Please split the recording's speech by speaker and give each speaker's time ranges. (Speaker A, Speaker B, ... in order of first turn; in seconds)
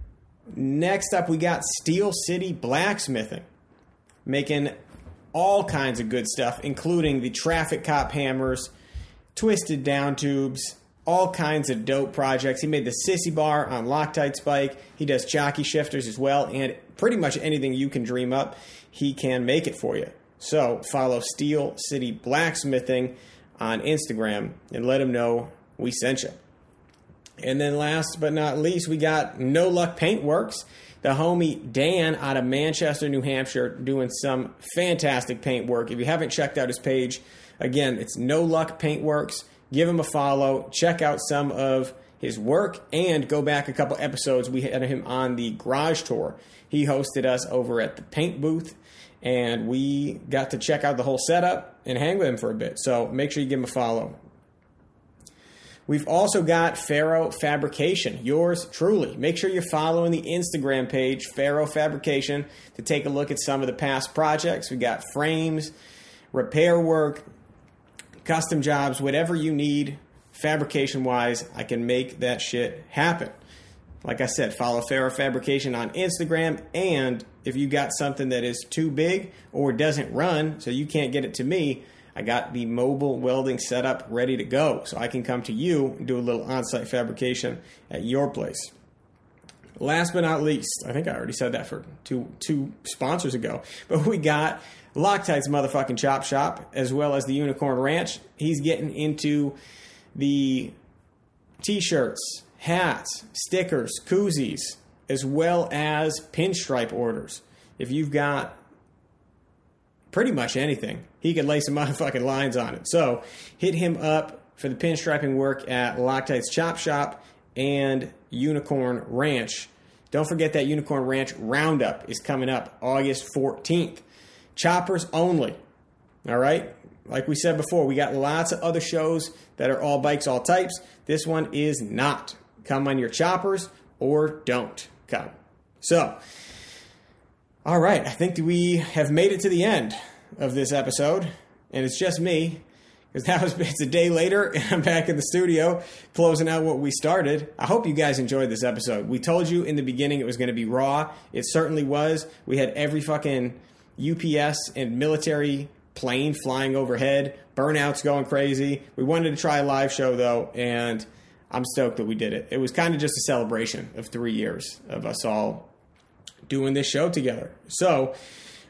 Speaker A: 0.5-3.5, 4.2-4.8, 5.3-8.7, 9.3-26.4, 27.4-54.2, 55.9-65.7, 66.3-67.3, 68.2-73.3, 74.0-88.7, 89.8-99.6, 100.2-100.7, 101.6-108.6, 110.1-124.0, 124.6-125.6, 126.3-136.2, 137.7-142.6, 143.1-165.7, 166.5-168.2